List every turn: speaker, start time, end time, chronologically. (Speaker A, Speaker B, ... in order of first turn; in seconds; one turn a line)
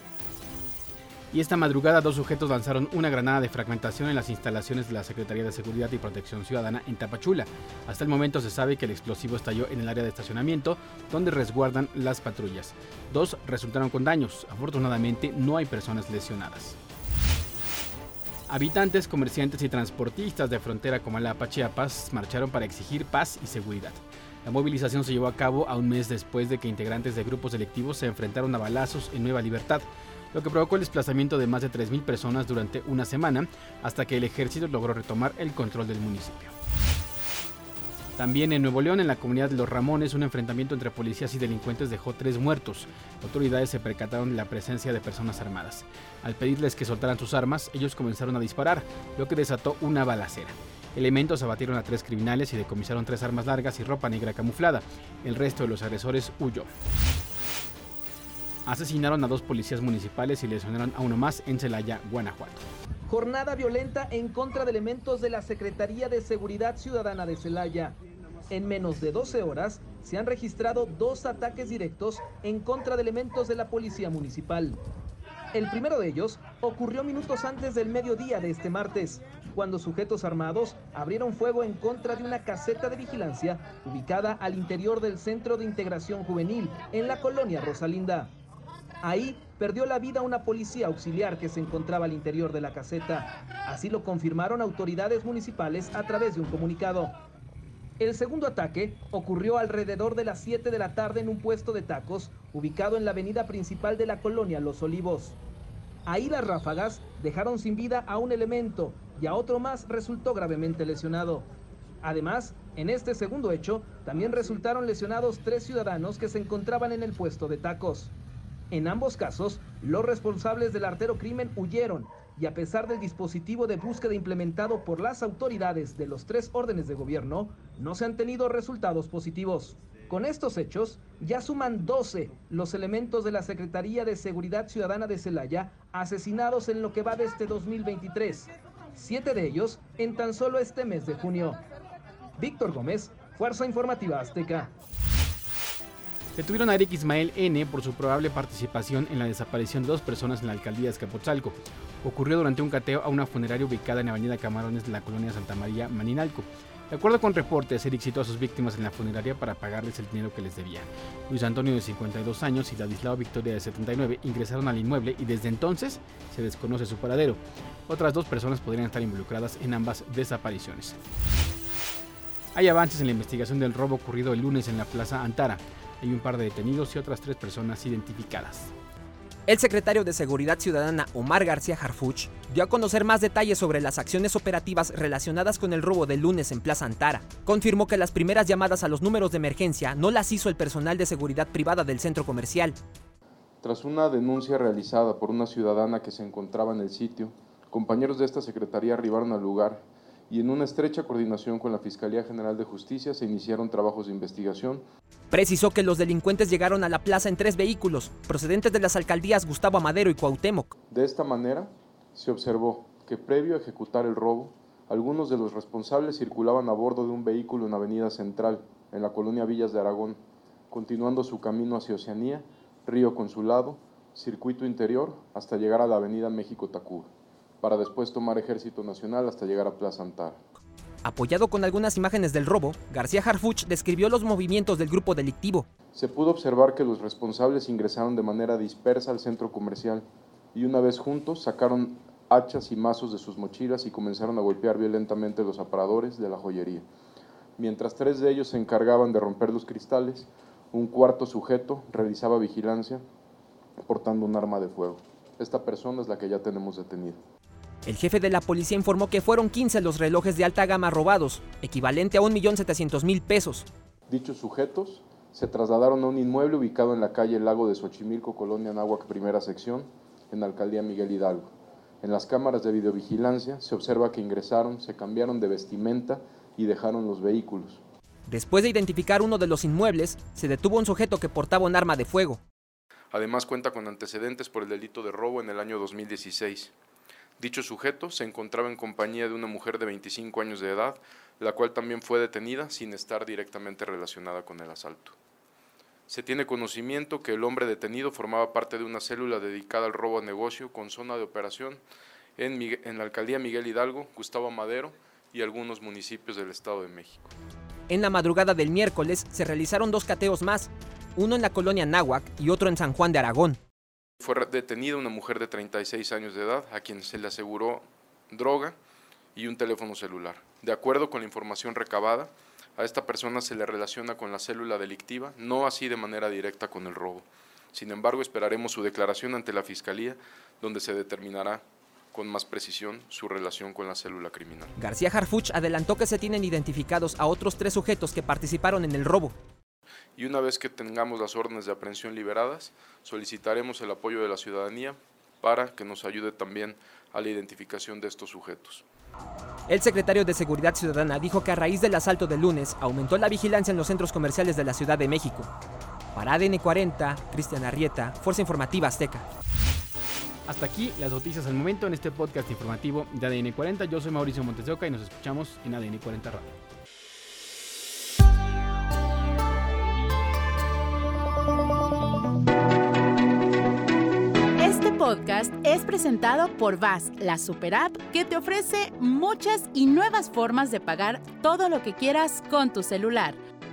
Speaker A: 1.3-16.8
Speaker A: 18.5-36.5
Speaker A: 38.2-56.7
Speaker A: 58.7-62.6
Speaker B: 63.1-68.0
Speaker B: 68.5-74.8
Speaker B: 75.5-88.3
Speaker B: 89.0-97.2
Speaker B: 98.0-105.4
Speaker B: 106.1-111.5
Speaker B: 112.0-118.1
Speaker B: 118.7-141.6
Speaker B: 142.4-144.7
Speaker A: 146.4-171.0
Speaker A: 172.5-178.7
Speaker C: 179.5-192.8
Speaker D: 193.6-204.8
Speaker C: 205.3-210.7
Speaker D: 210.9-230.4
Speaker C: 231.1-235.7
Speaker D: 235.9-246.9
Speaker D: 247.6-253.0
Speaker D: 253.8-257.2
Speaker C: 257.9-263.7
Speaker D: 264.1-277.8
Speaker C: 278.3-282.4
Speaker D: 283.1-286.7
Speaker D: 287.4-295.2
Speaker D: 296.1-301.8
Speaker D: 302.4-307.3
Speaker C: 307.9-313.6
Speaker D: 314.2-318.8
Speaker D: 319.3-334.7
Speaker C: 334.8-339.4
Speaker D: 340.2-348.9
Speaker C: 349.7-355.5
Speaker C: 356.1-359.3
Speaker A: 360.5-366.5
Speaker E: 374.6-383.4